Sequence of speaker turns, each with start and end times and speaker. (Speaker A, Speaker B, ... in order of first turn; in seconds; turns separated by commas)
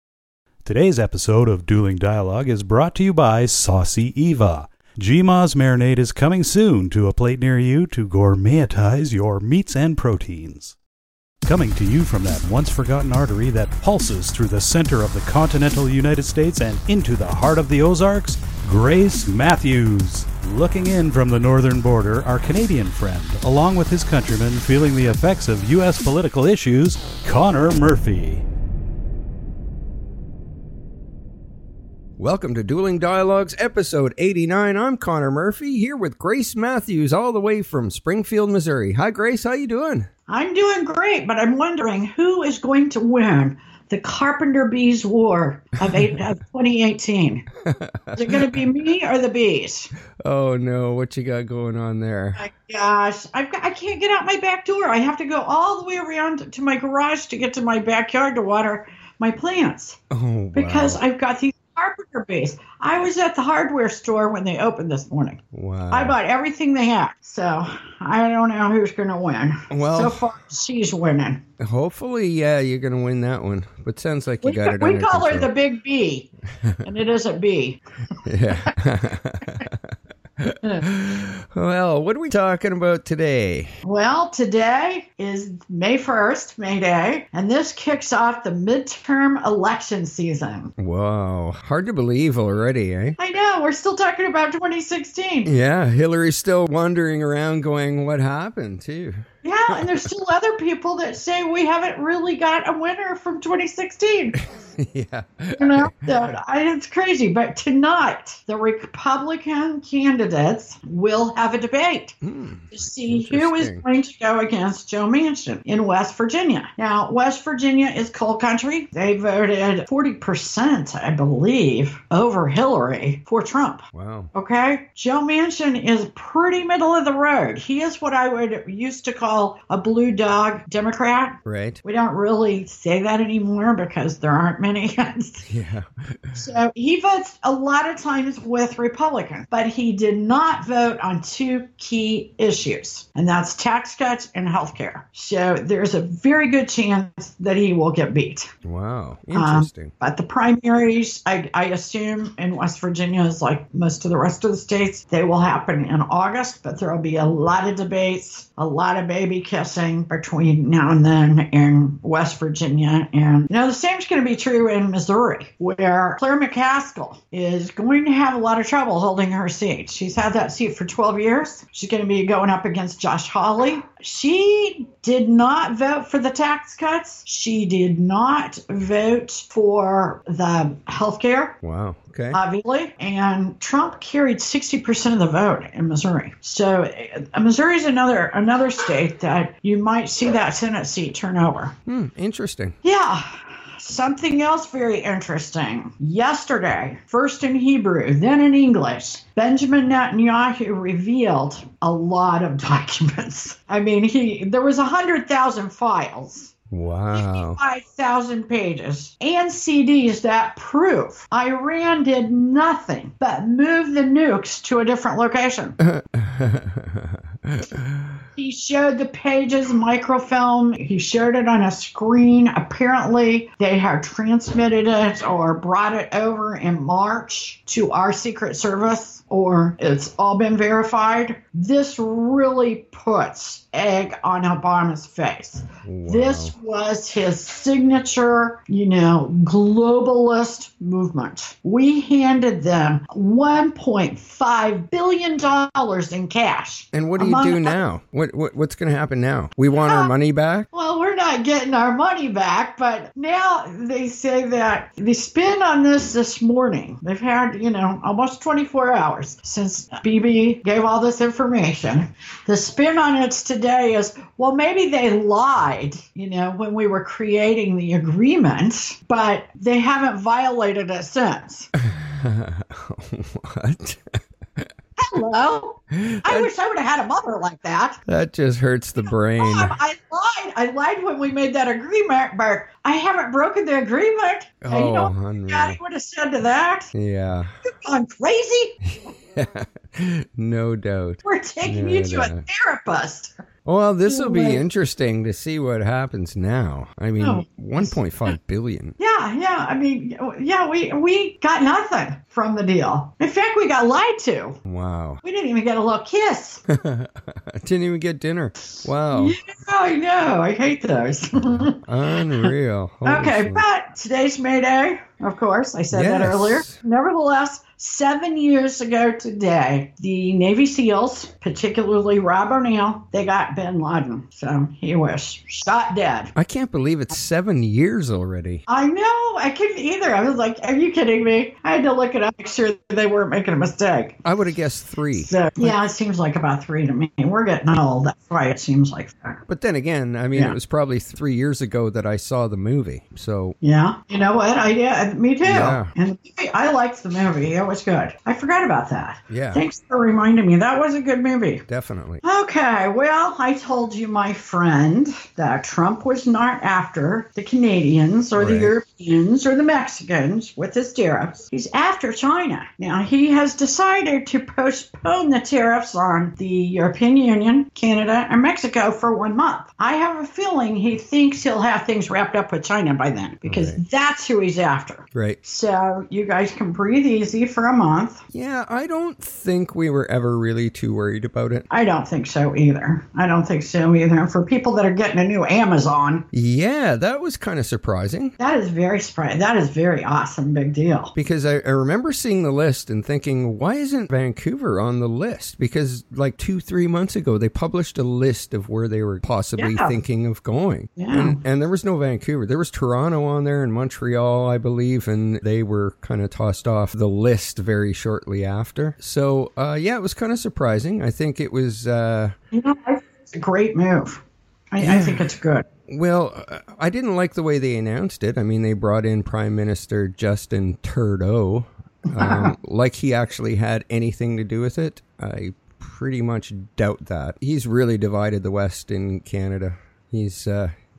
Speaker A: 0.6-10.7, Speaker A: 11.4-28.4, Speaker B: 32.2-40.1, Speaker C: 40.3-47.5, Speaker B: 47.7-48.5, Speaker C: 48.1-49.9, Speaker B: 50.2-52.4, Speaker C: 52.4-60.0, Speaker B: 60.1-61.0, Speaker C: 60.5-71.4, Speaker B: 65.5-66.2, Speaker B: 69.7-70.2, Speaker B: 71.6-75.5, Speaker C: 74.4-76.3, Speaker C: 76.8-77.8, Speaker B: 78.2-79.7, Speaker C: 78.5-78.7, Speaker B: 80.4-83.7, Speaker C: 83.8-90.7, Speaker B: 90.8-93.2, Speaker C: 93.2-95.5, Speaker B: 95.4-99.9, Speaker C: 99.4-104.4, Speaker B: 104.5-106.0, Speaker C: 105.5-112.2, Speaker B: 112.2-113.8, Speaker C: 112.7-135.5, Speaker B: 123.9-124.3, Speaker B: 131.4-131.8, Speaker B: 135.4-136.5, Speaker C: 136.3-148.5, Speaker B: 148.6-149.9, Speaker C: 149.3-181.6, Speaker B: 181.6-182.4, Speaker C: 182.3-191.7, Speaker B: 191.8-192.8, Speaker C: 192.8-206.5, Speaker B: 206.7-207.6, Speaker C: 207.1-215.8, Speaker B: 215.8-217.8, Speaker C: 218.3-247.8, Speaker B: 235.8-236.5, Speaker B: 246.9-250.7, Speaker C: 249.7-250.1, Speaker C: 250.7-271.7, Speaker B: 271.8-274.6, Speaker C: 275.0-278.0, Speaker B: 275.9-276.5, Speaker B: 278.1-279.8, Speaker C: 279.1-286.9, Speaker B: 284.6-285.8, Speaker B: 286.9-287.5, Speaker C: 287.6-288.8, Speaker B: 288.9-292.4, Speaker C: 291.2-293.4, Speaker B: 293.6-298.9, Speaker C: 294.0-294.7, Speaker C: 297.2-298.4, Speaker C: 299.0-304.6, Speaker B: 304.6-305.2, Speaker C: 305.2-306.6, Speaker B: 306.8-309.4, Speaker C: 309.1-311.8, Speaker B: 311.9-313.6, Speaker C: 313.0-326.3, Speaker B: 315.9-316.7, Speaker B: 326.3-328.6, Speaker C: 328.7-334.2, Speaker B: 334.2-335.7, Speaker C: 335.1-339.4, Speaker B: 339.5-343.6, Speaker C: 340.3-340.6, Speaker C: 343.6-351.6, Speaker B: 345.4-345.9, Speaker B: 349.3-349.6, Speaker B: 351.7-352.2, Speaker C: 352.2-378.2, Speaker B: 358.3-358.8, Speaker B: 373.4-373.8, Speaker B: 375.1-375.4, Speaker B: 378.3-381.7, Speaker C: 381.7-386.2, Speaker B: 386.3-388.3, Speaker C: 388.4-391.1, Speaker B: 391.1-412.3, Speaker C: 399.6-400.0, Speaker C: 401.0-401.4, Speaker C: 412.5-415.6, Speaker B: 414.8-415.3, Speaker B: 415.9-430.7, Speaker C: 422.1-422.5